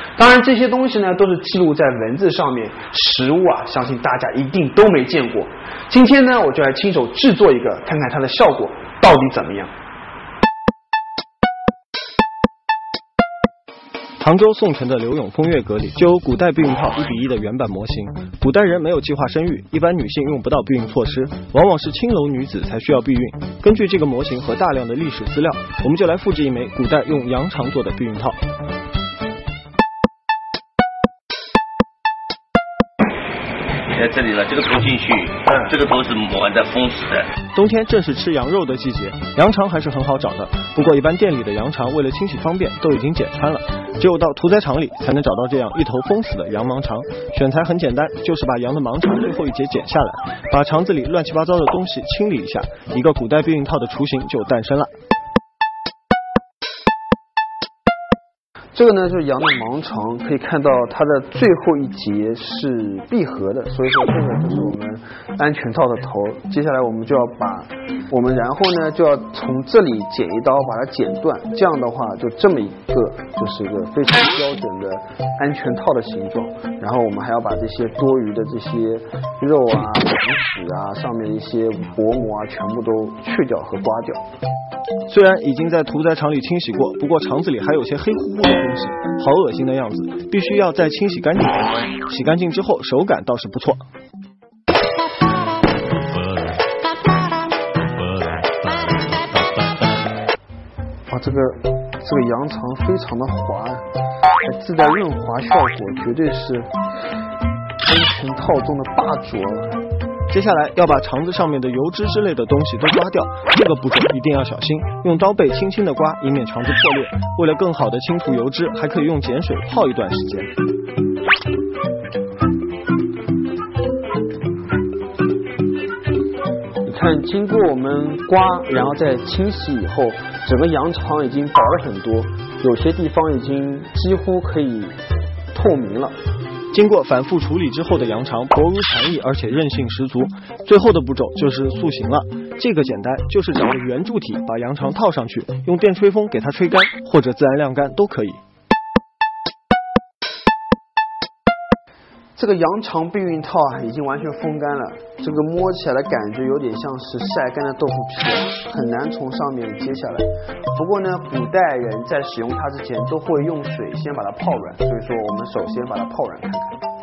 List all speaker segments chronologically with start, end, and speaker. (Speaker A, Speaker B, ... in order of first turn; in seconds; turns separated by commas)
Speaker A: 0.2-9.7, Speaker B: 14.2-28.4, Speaker C: 33.9-37.3, Speaker B: 37.5-54.9, Speaker A: 58.7-84.2, Speaker B: 85.1-93.8, Speaker A: 101.1-103.8, Speaker A: 104.5-106.7, Speaker A: 107.8-109.8, Speaker B: 110.3-120.5, Speaker A: 126.8-134.9, Speaker A: 135.5-136.2, Speaker B: 136.7-148.4, Speaker A: 152.4-166.8